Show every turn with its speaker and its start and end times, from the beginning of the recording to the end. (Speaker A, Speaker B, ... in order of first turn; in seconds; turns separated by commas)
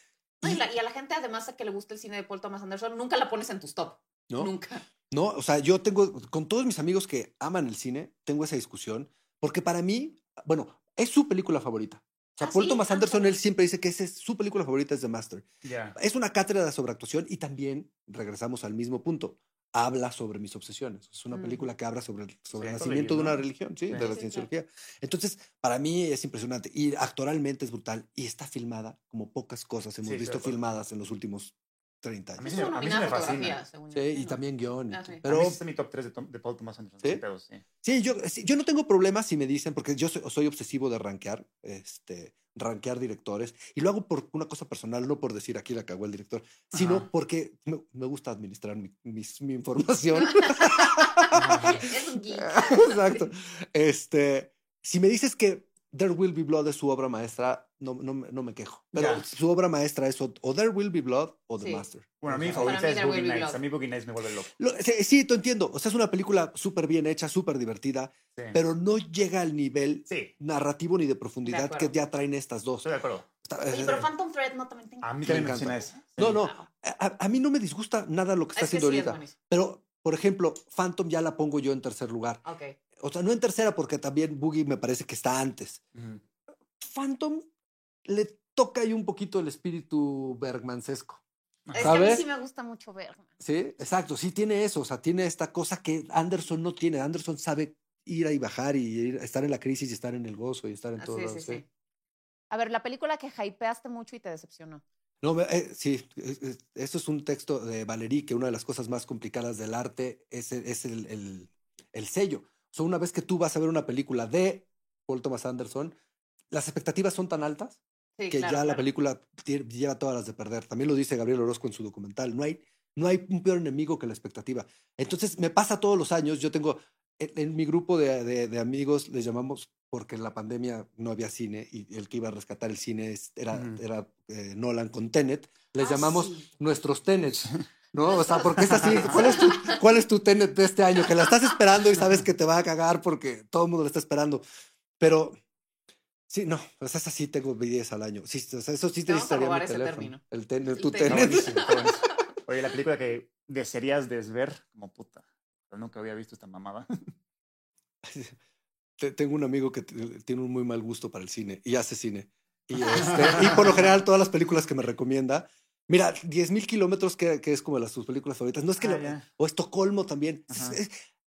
Speaker A: 0.4-4.8, Speaker B: 5.1-35.6, Speaker A: 12.4-13.4, Speaker C: 15.6-16.0, Speaker A: 21.3-21.6, Speaker C: 22.5-24.1, Speaker A: 23.9-24.5, Speaker C: 30.0-30.5, Speaker A: 32.4-35.2, Speaker C: 32.4-33.6, Speaker C: 35.2-37.6, Speaker B: 37.8-62.9, Speaker C: 46.7-47.1, Speaker A: 50.2-51.1, Speaker C: 51.3-51.9, Speaker A: 51.6-53.3, Speaker C: 58.9-59.2, Speaker A: 61.6-61.9, Speaker C: 62.2-64.5, Speaker A: 62.5-63.6, Speaker B: 64.6-72.9, Speaker A: 71.4-71.9, Speaker C: 72.8-73.3, Speaker B: 73.5-74.0, Speaker A: 73.7-75.1, Speaker C: 75.0-76.4, Speaker B: 75.2-82.4, Speaker A: 76.2-76.7, Speaker A: 78.5-79.3, Speaker A: 82.4-82.8, Speaker B: 83.0-85.8, Speaker C: 85.9-86.2, Speaker B: 86.8-87.5, Speaker B: 88.0-91.2, Speaker C: 91.7-92.0, Speaker A: 91.7-93.3, Speaker B: 91.8-92.2, Speaker B: 93.4-101.6, Speaker A: 101.0-101.6, Speaker A: 102.5-104.8, Speaker B: 105.2-116.0, Speaker B: 116.5-144.4, Speaker A: 118.2-118.8, Speaker C: 133.5-133.8, Speaker A: 135.8-136.5, Speaker A: 138.0-139.8, Speaker C: 138.6-139.2, Speaker B: 145.0-145.4, Speaker B: 146.3-151.5, Speaker A: 149.1-152.2, Speaker C: 151.0-156.9, Speaker B: 158.0-158.4, Speaker B: 159.0-170.9, Speaker A: 162.8-163.3, Speaker C: 162.9-163.9, Speaker C: 168.8-169.2, Speaker C: 170.5-170.8